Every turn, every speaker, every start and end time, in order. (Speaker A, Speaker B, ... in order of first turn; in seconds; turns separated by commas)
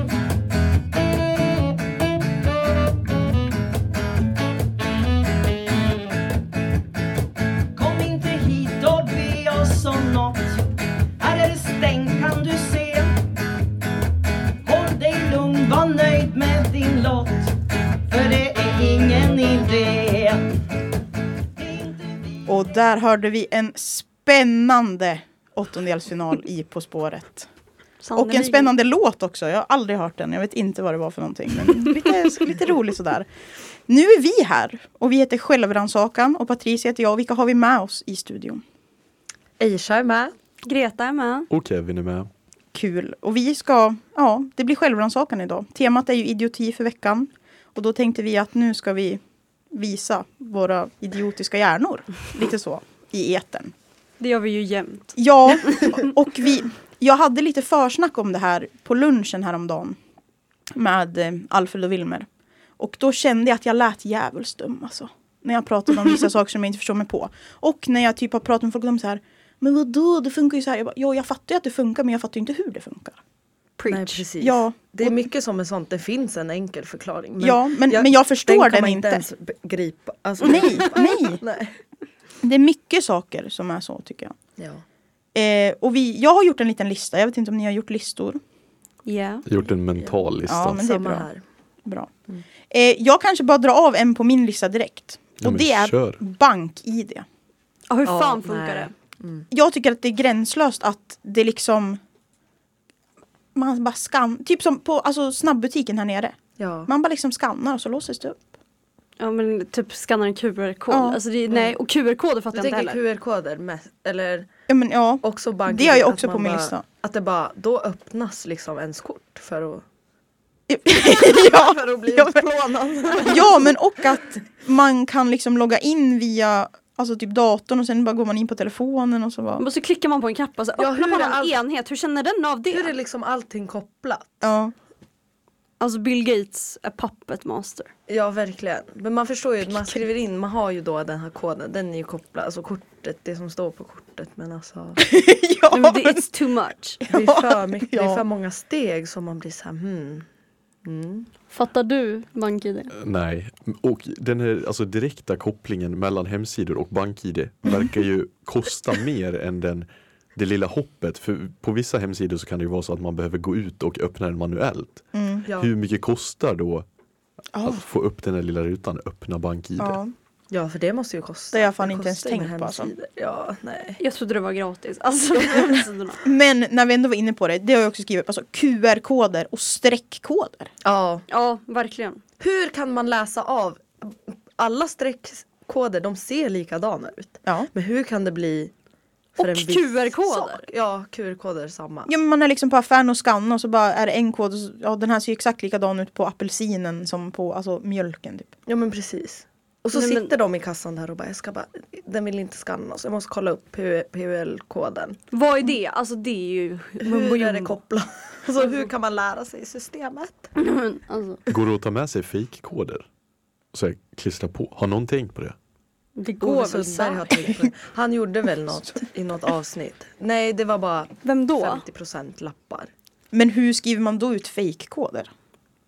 Speaker A: 7.8-10.6, Speaker A: 11.2-13.2, Speaker A: 14.6-17.5, Speaker A: 18.1-20.5, Speaker A: 21.6-22.4, Speaker B: 22.5-27.5, Speaker C: 28.0-28.7, Speaker B: 28.2-33.3, Speaker B: 33.9-38.6, Speaker D: 39.6-40.3, Speaker C: 40.6-41.5, Speaker E: 41.5-42.3, Speaker B: 42.7-49.2, Speaker B: 49.7-53.7, Speaker C: 54.2-55.9, Speaker B: 55.2-60.0, Speaker B: 60.7-62.3, Speaker B: 62.8-73.2, Speaker C: 73.8-74.2, Speaker D: 73.9-81.8, Speaker B: 74.4-75.2, Speaker B: 77.4-79.2, Speaker B: 80.4-81.4, Speaker B: 82.4-84.4, Speaker D: 84.6-84.8, Speaker B: 85.3-88.4, Speaker C: 89.1-89.5, Speaker E: 89.5-90.8, Speaker D: 90.0-91.4, Speaker B: 90.5-91.3, Speaker B: 91.8-92.1, Speaker B: 92.7-97.3, Speaker E: 95.4-96.2, Speaker C: 97.9-98.9, Speaker D: 98.0-99.5, Speaker B: 99.5-102.0, Speaker B: 103.5-108.5, Speaker D: 106.6-106.9, Speaker C: 109.2-113.0, Speaker B: 110.9-111.2, Speaker D: 112.5-114.5, Speaker B: 114.7-116.8, Speaker D: 115.2-119.8, Speaker B: 120.7-122.5, Speaker D: 120.9-123.8, Speaker B: 123.2-129.6, Speaker C: 129.6-132.9, Speaker D: 130.8-131.5, Speaker D: 132.7-134.4, Speaker B: 134.4-134.7, Speaker C: 135.8-137.9, Speaker D: 138.1-145.0, Speaker B: 145.0-146.2, Speaker C: 145.7-147.0, Speaker B: 147.0-148.2, Speaker D: 147.1-150.3, Speaker D: 150.8-151.3, Speaker C: 151.5-152.9, Speaker E: 152.9-166.9, Speaker B: 157.7-157.9, Speaker B: 165.1-165.5, Speaker D: 165.5-165.7, Speaker B: 167.5-167.8, Speaker E: 167.6-170.0, Speaker B: 169.8-170.1, Speaker D: 170.5-174.0, Speaker B: 171.5-172.9, Speaker C: 174.0-176.2, Speaker B: 176.2-180.7, Speaker D: 180.8-181.2, Speaker C: 181.3-182.2, Speaker D: 182.4-188.7, Speaker B: 187.4-187.7, Speaker D: 189.4-192.1, Speaker C: 189.4-190.7, Speaker B: 192.1-198.5, Speaker D: 198.7-205.2, Speaker C: 199.9-200.3, Speaker C: 205.3-207.8, Speaker D: 207.0-210.5, Speaker C: 210.6-211.4, Speaker E: 211.5-213.1, Speaker E: 213.7-215.6, Speaker C: 216.2-217.4, Speaker D: 216.4-222.9, Speaker C: 221.2-221.8, Speaker B: 223.3-225.3